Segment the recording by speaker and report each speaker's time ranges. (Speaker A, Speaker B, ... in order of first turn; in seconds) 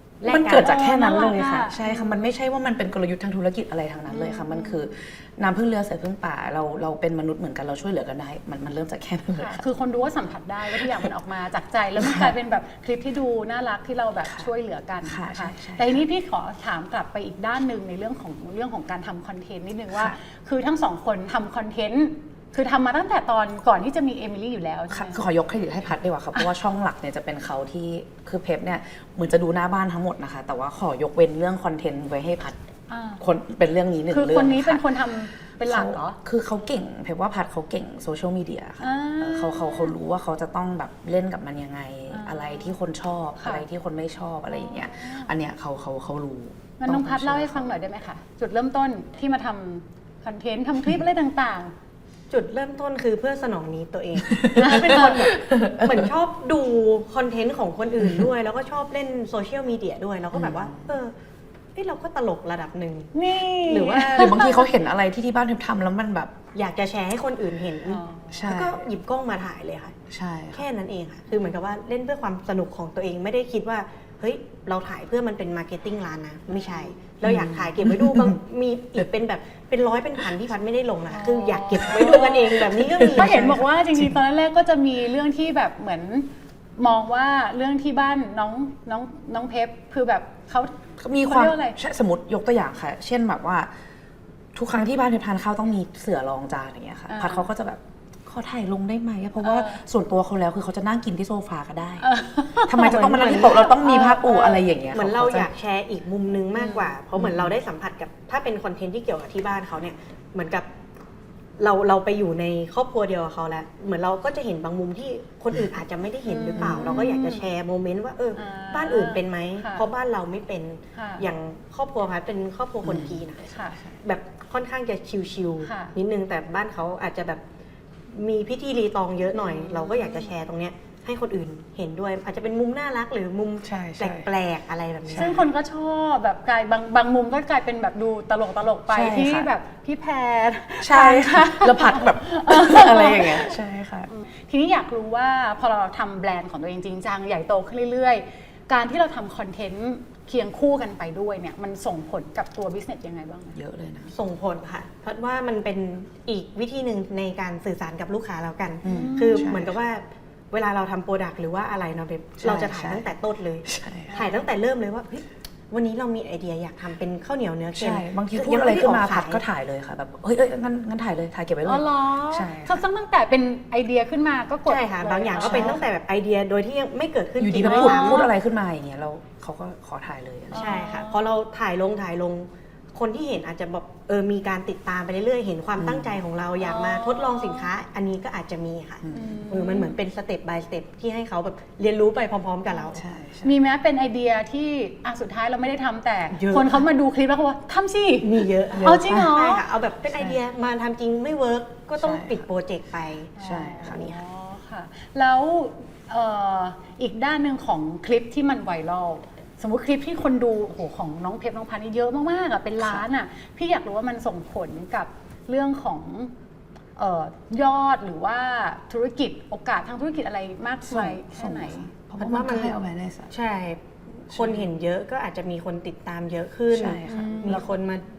Speaker A: 0.2-0.9, 52.3-61.1, 61.8-64.5, 66.5-70.0, 70.5-83.6, 102.7-110.7, 111.6-127.4, 128.1-135.3, 154.1-169.4, 174.7-178.3, 180.5-193.0, 196.3-196.8, 198.2-204.2, 222.2-222.8, 223.3-228.0
Speaker B: 0.3-2.3, 4.1-4.9, 9.4-25.2, 32.9-33.2, 34.1-36.2, 38.8-39.9, 42.1-42.7, 44.5-45.3, 46.8-51.7, 54.6-55.1, 63.1-64.7, 67.9-68.5, 76.5-77.0, 81.1-91.8, 97.1-97.5, 99.4-99.8, 102.0-104.1, 106.5-106.9, 116.2-117.5, 118.3-119.8, 120.9-121.2, 123.5-123.8, 125.6-125.9, 129.3-130.3, 135.2-143.6, 144.1-153.6, 158.8-159.5, 171.6-175.8, 177.6-178.3, 180.5-181.2, 186.6-187.7, 189.1-190.0, 193.4-199.6, 203.4-216.3, 216.9-221.9, 227.1-227.7
Speaker C: 0.3-9.7, 12.0-12.3, 15.0-16.0, 19.9-20.2, 24.9-32.6, 33.2-34.9, 35.6-47.8, 54.3-56.1, 60.3-61.0, 64.0-66.3, 68.3-68.8, 70.1-70.7, 77.2-78.4, 82.0-84.1, 91.0-93.7, 94.5-105.5, 107.2-107.5, 116.5-117.0, 122.8-123.2, 133.6-134.3, 135.1-135.4, 138.9-139.5, 140.8-144.1, 153.5-154.1, 158.8-159.7, 162.4-163.0, 163.7-164.2, 167.7-172.8, 175.4-175.8, 177.4-180.8, 185.8-186.2, 189.0-189.5, 192.9-193.6, 198.8-199.3, 202.0-202.4, 203.4-204.2, 212.8-213.1, 220.8-223.3, 224.3-224.7, 226.7-227.7